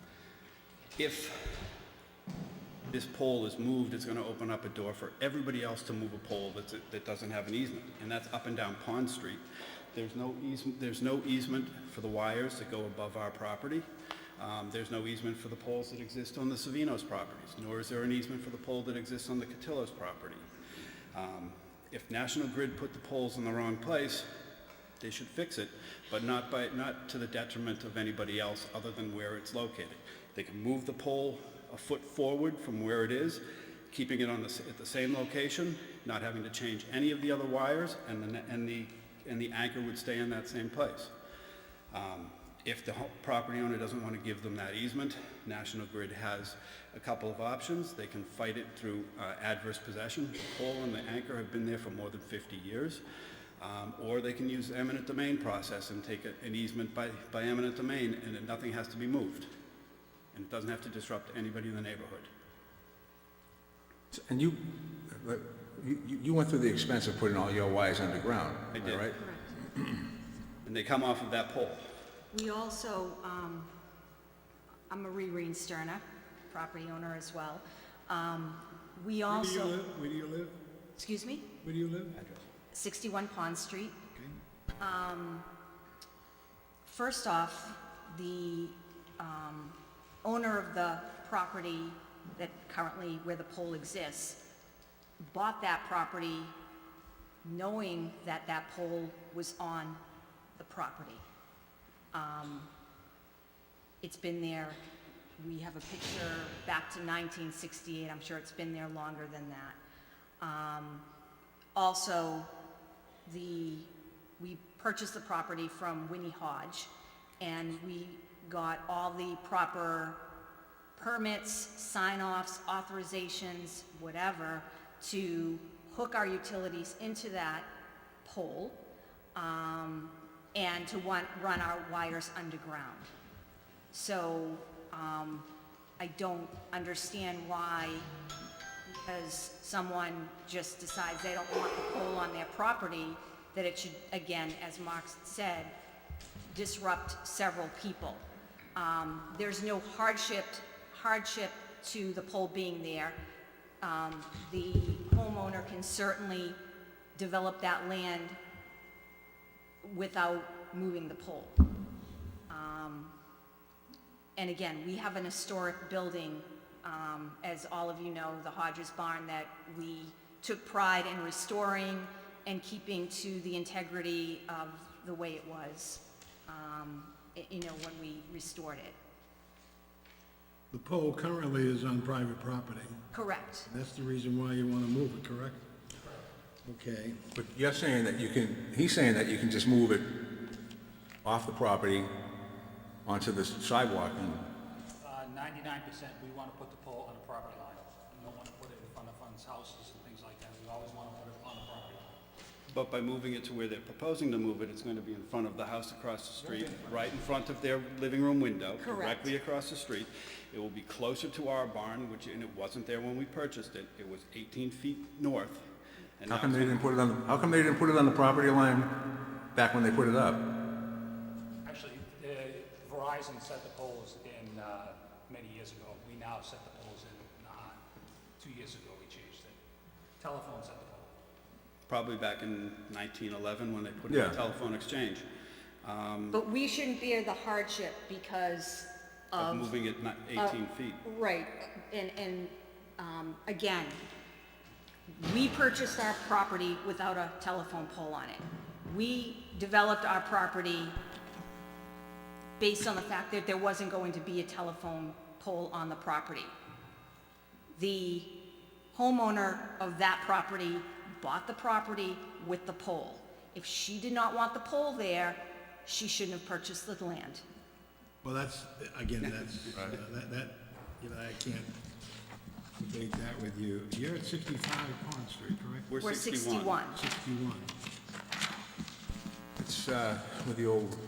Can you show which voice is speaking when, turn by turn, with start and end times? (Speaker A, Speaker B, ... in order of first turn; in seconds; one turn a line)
Speaker A: 1.0-1.8
Speaker A: 2.9-13.9
Speaker A: 14.4-20.5
Speaker A: 21.1-24.3
Speaker A: 25.0-41.1
Speaker A: 41.9-53.0
Speaker A: 53.6-59.5
Speaker A: 60.3-62.3
Speaker B: 64.1-69.2
Speaker A: 68.7-69.1
Speaker C: 69.2-69.6
Speaker A: 70.6-71.9
Speaker C: 72.3-73.7
Speaker C: 74.9-79.8
Speaker D: 79.3-80.6
Speaker C: 81.0-81.5
Speaker D: 81.6-82.2
Speaker C: 82.7-84.0
Speaker D: 84.1-84.4
Speaker C: 84.8-85.5
Speaker C: 86.8-94.4
Speaker C: 95.2-96.5
Speaker C: 97.4-100.0
Speaker C: 100.5-101.2
Speaker C: 102.1-102.7
Speaker C: 104.0-104.8
Speaker C: 105.4-109.8
Speaker C: 110.4-111.0
Speaker C: 111.7-112.5
Speaker C: 113.2-120.2
Speaker C: 121.0-127.7
Speaker C: 128.2-128.8
Speaker C: 129.3-133.1
Speaker C: 133.9-135.5
Speaker C: 136.0-138.1
Speaker C: 138.9-145.7
Speaker C: 146.5-153.2
Speaker C: 153.8-156.6
Speaker C: 157.1-158.4
Speaker C: 159.8-161.6
Speaker C: 162.5-163.1
Speaker C: 164.3-178.9
Speaker D: 180.7-183.0
Speaker C: 183.1-183.7
Speaker D: 183.6-185.6
Speaker D: 186.6-187.2
Speaker B: 187.3-190.1
Speaker B: 191.2-192.1
Speaker B: 193.0-194.4
Speaker E: 195.0-202.1
Speaker A: 202.7-215.7
Speaker D: 206.5-207.0
Speaker C: 208.8-209.2
Speaker A: 216.2-216.9
Speaker B: 216.2-219.0
Speaker B: 219.5-220.5
Speaker E: 221.6-227.8
Speaker E: 228.4-229.6
Speaker E: 230.2-231.1
Speaker A: 231.9-235.2
Speaker B: 234.1-234.4
Speaker A: 235.8-236.4
Speaker C: 236.3-239.7
Speaker A: 239.4-241.0
Speaker C: 240.3-244.0
Speaker C: 245.1-251.0
Speaker C: 252.6-256.5
Speaker C: 257.7-258.3
Speaker C: 258.9-267.4
Speaker D: 268.2-271.7
Speaker D: 272.8-275.9
Speaker A: 275.9-276.8
Speaker C: 276.0-277.0
Speaker D: 276.9-277.7
Speaker B: 279.6-281.0